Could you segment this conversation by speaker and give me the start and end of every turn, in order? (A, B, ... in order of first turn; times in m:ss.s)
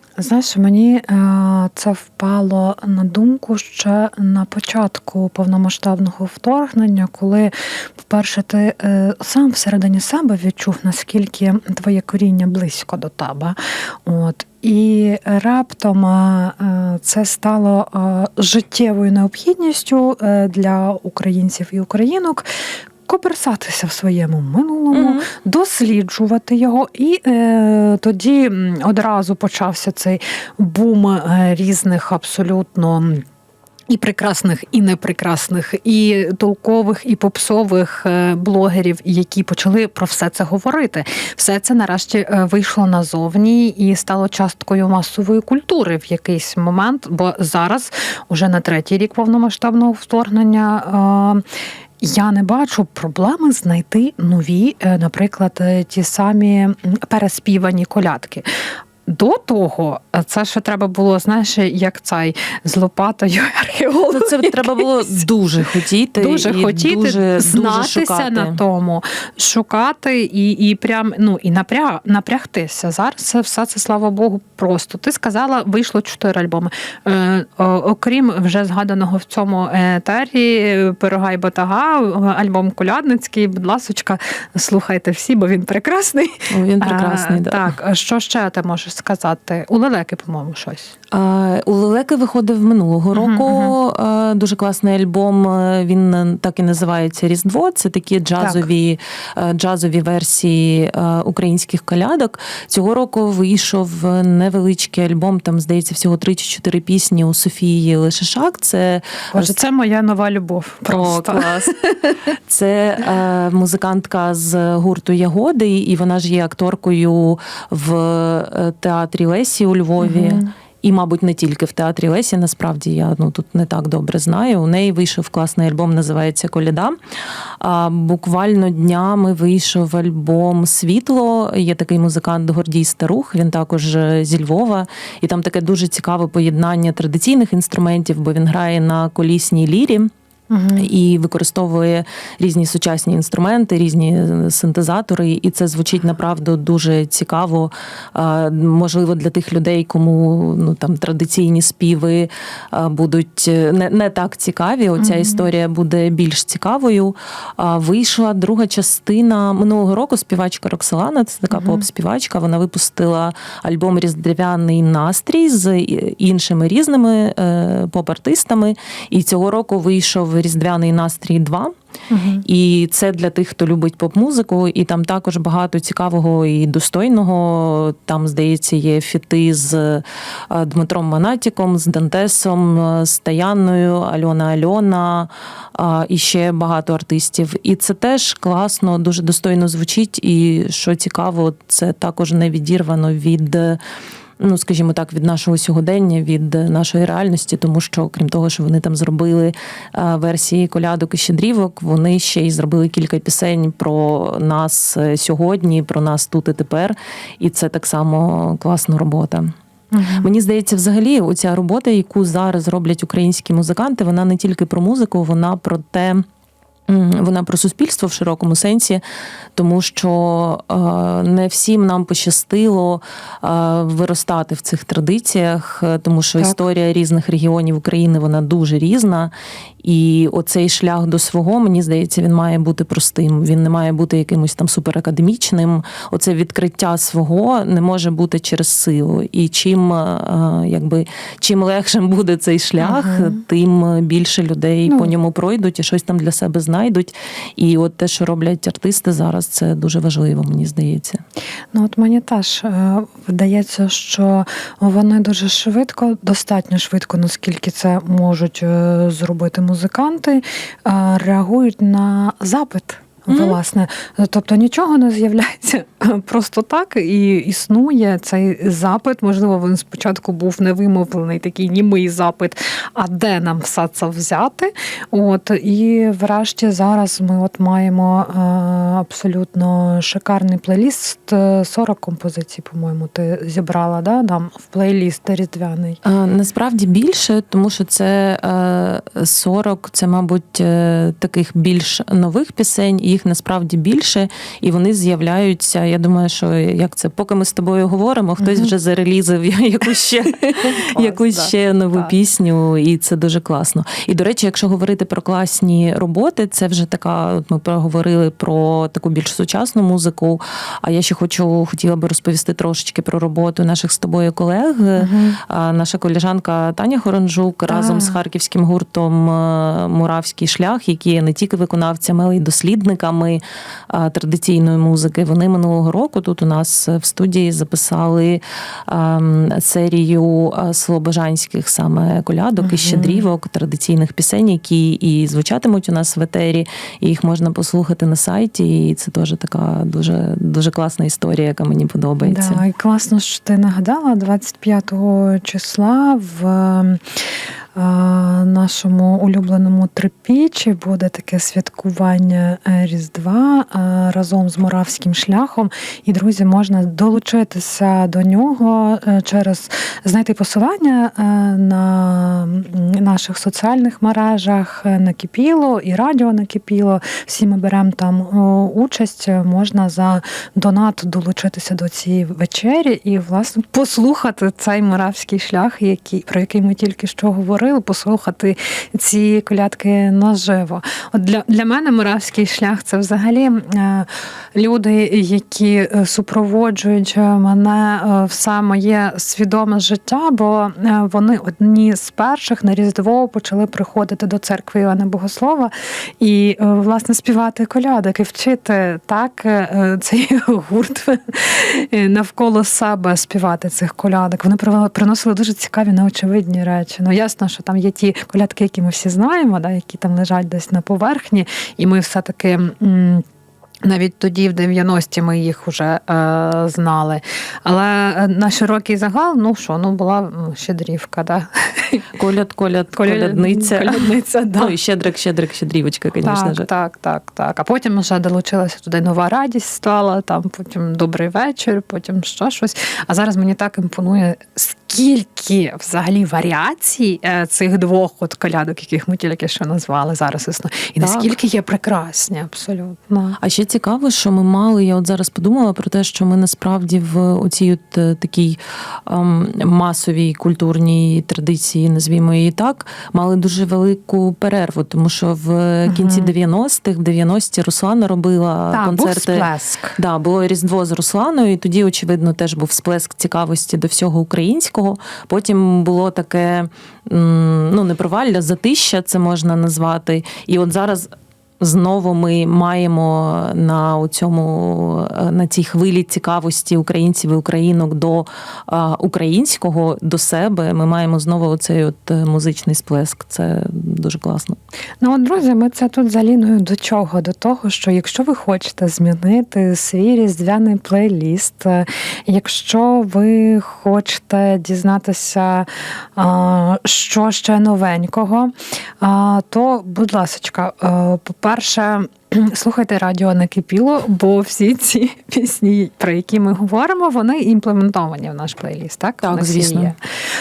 0:00.2-0:22.4 A
0:23.1-0:33.2 A
0:24.9-0:25.3 B
0:33.9-0:51.4 A
0:52.0-0:58.5 A
0:59.1-1:04.9 A
1:04.1-1:08.6 B
1:06.2-1:30.9 A
1:26.5-1:27.7 B
1:31.1-1:49.6 B
1:33.1-1:33.8 A
1:38.4-1:38.7 A
1:49.3-1:52.2 A
1:50.9-1:51.7 B
1:52.5-2:06.9 B
2:00.0-2:00.5 A
2:07.6-2:20.1 B
2:20.5-2:20.9 A
2:20.8-2:51.7 B
2:35.0-2:35.5 A
2:41.5-2:41.8 A
2:52.1-2:52.4 A
2:52.4-3:13.8 B
3:14.4-3:29.5 B
3:29.9-3:30.3 A
3:30.2-3:36.2 B
3:36.9-3:39.0 B
3:39.6-3:49.3 B
3:49.8-4:11.2 B
4:02.8-4:03.4 A
4:04.9-4:05.1 A
4:11.7-4:46.0 A
4:23.3-4:23.6 B
4:46.0-5:42.6 B
4:58.4-4:58.7 A
5:00.4-5:02.1 A
5:15.0-5:15.4 A
5:17.7-5:18.2 A
5:32.6-5:33.3 A
5:42.2-5:47.0 A
5:47.8-6:53.2 A
6:53.8-7:02.1 A
7:02.2-7:06.7 B
7:02.9-7:04.8 A
7:06.2-7:23.4 A
7:21.0-7:21.3 B
7:23.4-8:04.6 B
7:35.9-7:36.3 A
7:38.7-7:40.0 A
8:05.0-8:30.0 A
8:29.2-8:30.0 B